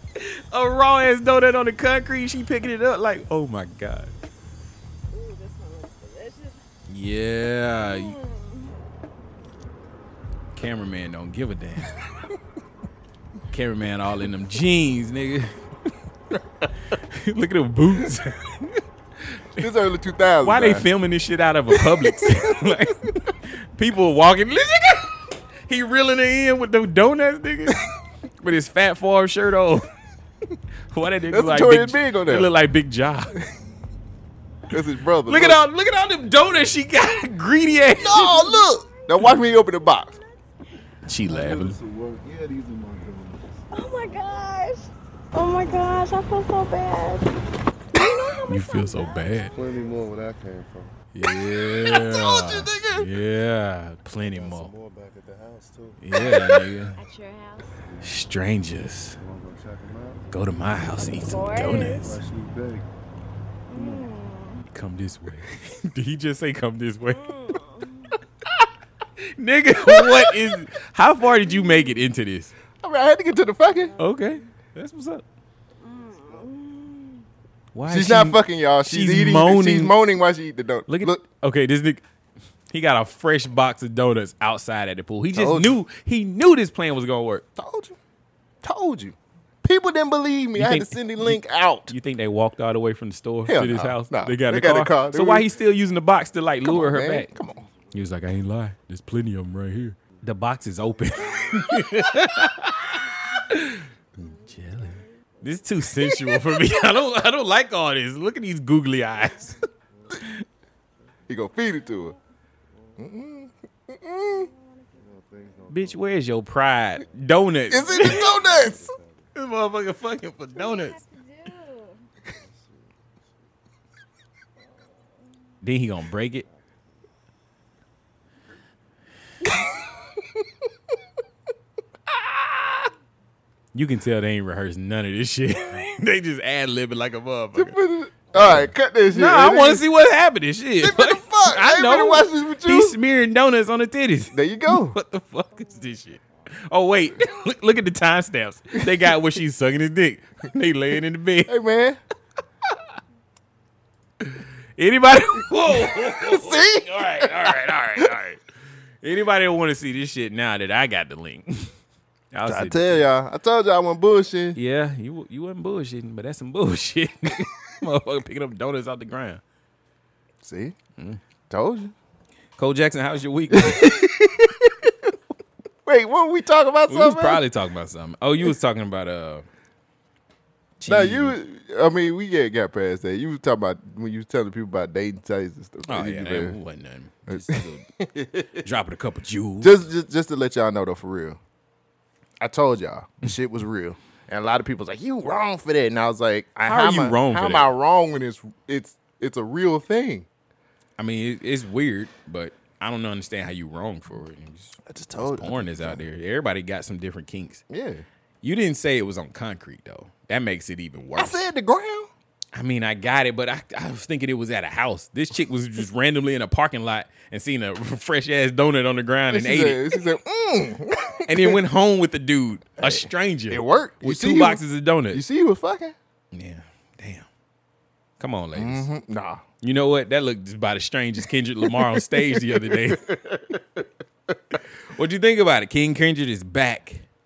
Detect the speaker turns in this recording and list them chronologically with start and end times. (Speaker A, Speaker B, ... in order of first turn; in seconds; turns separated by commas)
Speaker A: 0.2-4.1, Speaker B: 5.1-6.6, Speaker A: 6.9-8.2, Speaker B: 7.8-8.8, Speaker A: 10.5-11.9, Speaker A: 13.5-15.6, Speaker A: 16.9-18.8, Speaker C: 19.6-20.9, Speaker A: 20.4-27.9, Speaker C: 21.7-23.2, Speaker A: 28.4-29.9, Speaker A: 30.9-33.3, Speaker C: 31.3-32.5, Speaker C: 34.7-35.6, Speaker A: 35.3-38.4, Speaker C: 38.0-40.2, Speaker B: 38.1-39.3, Speaker B: 40.0-40.2, Speaker A: 41.1-41.8, Speaker D: 41.3-43.6, Speaker B: 43.7-47.3, Speaker B: 47.9-49.5, Speaker A: 48.5-49.5, Speaker D: 49.5-51.0, Speaker A: 51.1-54.7, Speaker C: 51.8-53.1, Speaker D: 54.2-56.0, Speaker A: 56.0-57.0, Speaker C: 56.3-56.6, Speaker B: 57.0-57.8, Speaker D: 57.8-58.2, Speaker A: 58.0-59.2, Speaker D: 59.2-60.8, Speaker A: 60.3-62.1, Speaker B: 61.2-62.2, Speaker D: 61.7-62.9, Speaker B: 63.7-64.6, Speaker D: 63.8-64.0, Speaker A: 64.7-67.3, Speaker B: 67.1-68.1, Speaker A: 69.4-72.5, Speaker C: 69.9-70.3, Speaker C: 72.8-74.0, Speaker B: 73.8-74.3, Speaker A: 74.0-75.2, Speaker B: 75.8-77.2, Speaker A: 77.7-80.0, Speaker C: 77.9-81.2, Speaker A: 80.9-82.0, Speaker A: 82.7-87.5, Speaker C: 85.3-85.8, Speaker C: 87.6-88.0, Speaker C: 88.6-91.9, Speaker A: 90.6-97.3, Speaker C: 93.5-95.5, Speaker C: 96.6-97.7, Speaker A: 97.9-109.6, Speaker B: 104.7-105.0, Speaker D: 110.0-110.2, Speaker C: 111.3-112.2, Speaker C: 113.0-114.5, Speaker B: 114.3-114.9, Speaker D: 115.0-116.1, Speaker A: 115.7-118.3, Speaker C: 117.7-118.8, Speaker D: 118.1-119.3, Speaker A: 119.3-121.0, Speaker B: 120.5-122.0, Speaker D: 122.4-123.0, Speaker A: 125.6-126.5, Speaker A: 133.7-137.8, Speaker C: 137.6-139.8, Speaker A: 138.3-151.5, Speaker C: 140.8-143.0, Speaker C: 144.3-144.9, Speaker C: 151.5-152.0, Speaker A: 154.3-158.4, Speaker C: 155.7-158.1, Speaker A: 159.0-161.7, Speaker A: 162.3-163.1, Speaker C: 162.4-164.6, Speaker A: 164.6-169.4, Speaker C: 170.4-170.8, Speaker C: 171.5-171.9, Speaker A: 172.6-173.9, Speaker C: 173.5-175.1, Speaker C: 175.8-177.4, Speaker A: 176.9-179.4, Speaker A: 180.8-181.4, Speaker C: 180.9-186.6, Speaker A: 185.9-187.9, Speaker C: 187.3-188.6, Speaker A: 188.6-189.8, Speaker C: 189.6-191.4, Speaker C: 192.4-200.3, Speaker A: 196.7-197.7, Speaker A: 201.0-207.6, Speaker C: 204.9-206.0, Speaker C: 207.7-208.1, Speaker A: 208.4-211.4, Speaker C: 211.2-212.1, Speaker A: 212.5-219.8, Speaker C: 219.3-221.6, Speaker A: 221.3-225.2, Speaker C: 222.8-224.6, Speaker C: 225.1-225.9, Speaker A: 226.3-227.3, Speaker A: 228.2-228.9, Speaker C: 228.6-229.4, Speaker A: 229.6-233.1, Speaker C: 231.7-233.6, Speaker A: 234.9-237.1